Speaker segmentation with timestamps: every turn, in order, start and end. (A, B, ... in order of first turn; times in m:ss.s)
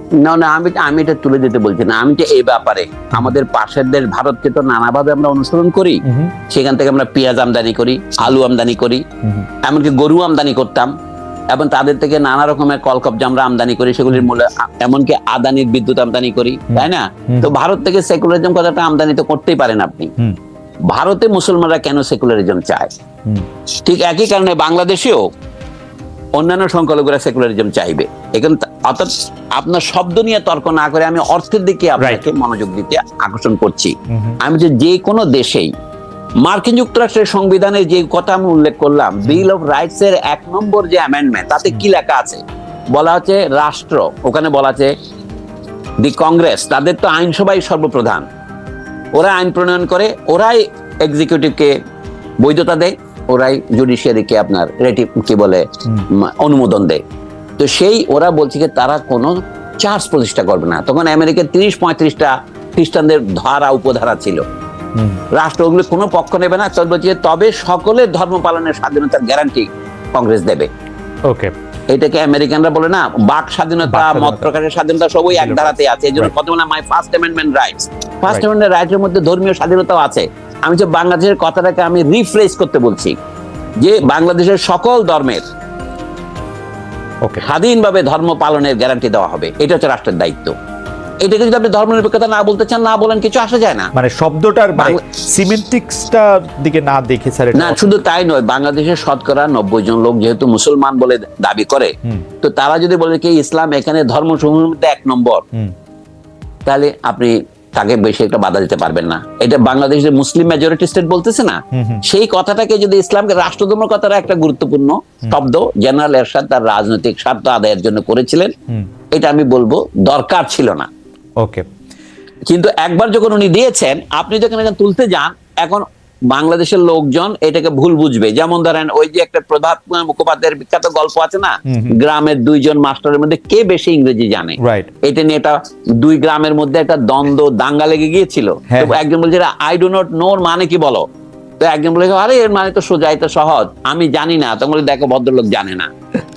0:00.2-0:09.0 A
0:06.0-0:06.4 B
0:09.2-0:09.5 B
0:09.6-0:10.9 A
0:11.5-0:20.1 A
0:16.7-0:17.5 B
0:20.9-0:22.9 A
0:23.8-0:25.3 A
0:26.4-0:35.7 A
0:32.0-0:32.2 B
0:34.1-0:34.4 B
0:36.4-0:42.4 A
0:42.9-0:44.9 A
0:46.0-0:48.2 A
0:49.1-0:51.7 A
0:52.4-0:57.0 A
0:57.6-1:04.4 A
1:04.9-1:05.2 B
1:05.3-1:10.7 A
1:11.9-1:23.1 A
1:13.8-1:14.5 B
1:15.3-1:16.3 B
1:23.8-1:25.4 A
1:27.4-1:30.5 A
1:31.2-1:33.9 A
1:33.9-1:37.9 B
1:37.5-1:45.4 A
1:46.6-1:58.5 A
1:51.7-1:52.0 B
1:59.1-2:00.9 A
2:01.4-2:01.6 B
2:02.5-2:21.0 A
2:11.7-2:12.0 B
2:14.6-2:14.9 B
2:18.7-2:19.0 B
2:21.6-2:25.9 A